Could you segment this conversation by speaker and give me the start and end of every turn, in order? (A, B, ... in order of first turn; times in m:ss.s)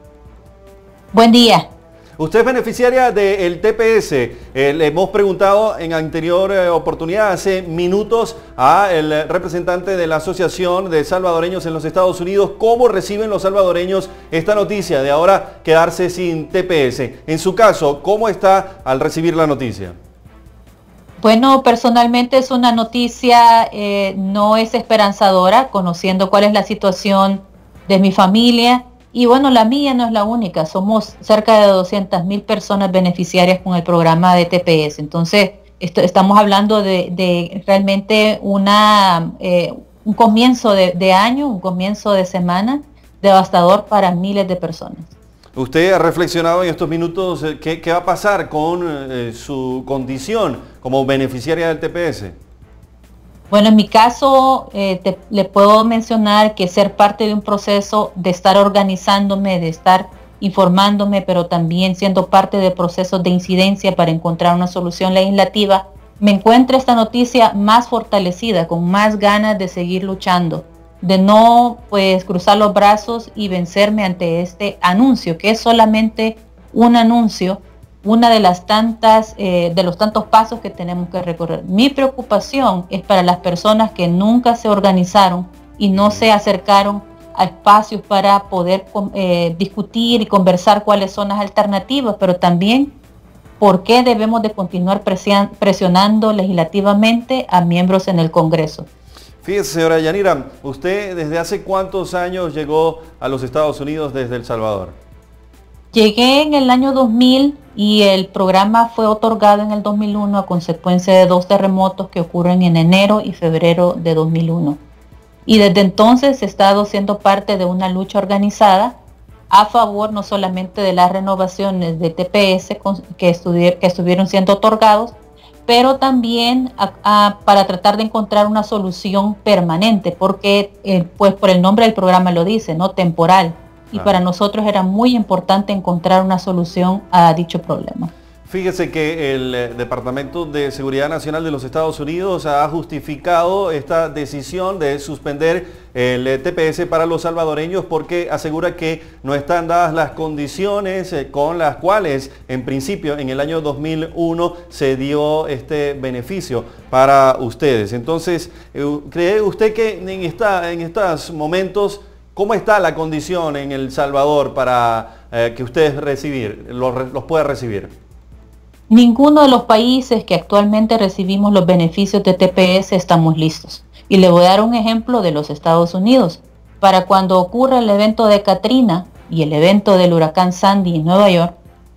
0:01.1-0:01.7 A
0:02.2-0:20.0 B
0:21.2-0:45.1 A
0:45.6-0:52.4 B
0:53.5-1:32.9 A
1:26.0-1:26.2 B
1:33.6-1:38.9 A
1:39.4-1:45.0 B
1:45.9-1:54.8 A
1:55.5-1:58.9 A
1:59.5-2:05.1 A
2:05.7-2:18.1 A
2:18.5-2:47.9 B
2:48.9-3:01.5 A